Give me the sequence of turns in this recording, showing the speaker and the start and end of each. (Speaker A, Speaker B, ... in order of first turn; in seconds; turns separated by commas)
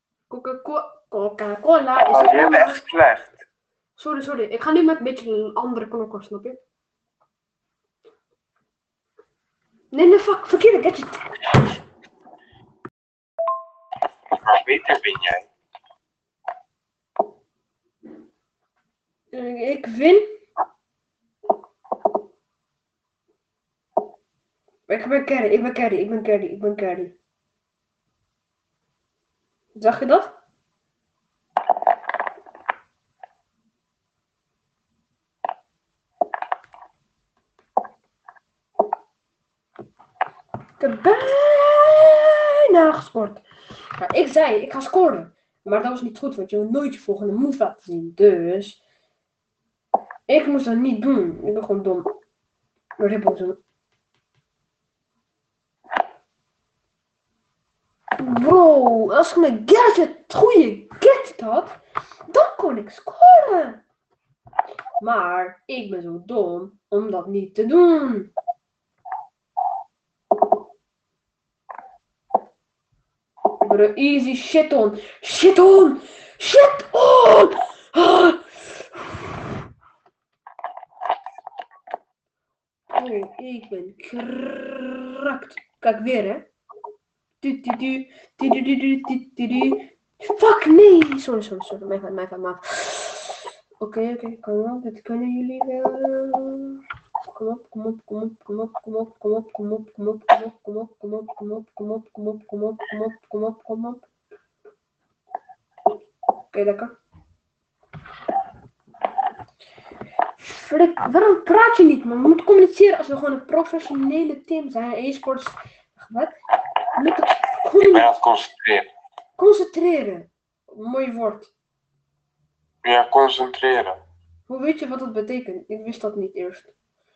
Speaker A: 0.3-2.8, Speaker B: 2.0-3.4, Speaker A: 4.0-6.6, Speaker A: 9.9-11.4, Speaker B: 14.4-15.5, Speaker A: 19.3-20.2, Speaker A: 24.9-27.1, Speaker A: 29.7-30.4, Speaker A: 40.8-43.4, Speaker A: 44.0-48.8, Speaker A: 50.3-52.1, Speaker A: 53.0-53.6, Speaker A: 58.2-61.8, Speaker A: 62.3-63.8, Speaker A: 65.0-68.3, Speaker A: 73.6-78.4, Speaker A: 82.9-86.5, Speaker A: 87.4-104.0, Speaker A: 106.5-106.9, Speaker A: 110.4-116.3, Speaker A: 117.0-118.1, Speaker B: 117.9-118.9, Speaker A: 119.4-121.5, Speaker B: 122.8-124.0, Speaker A: 124.5-126.7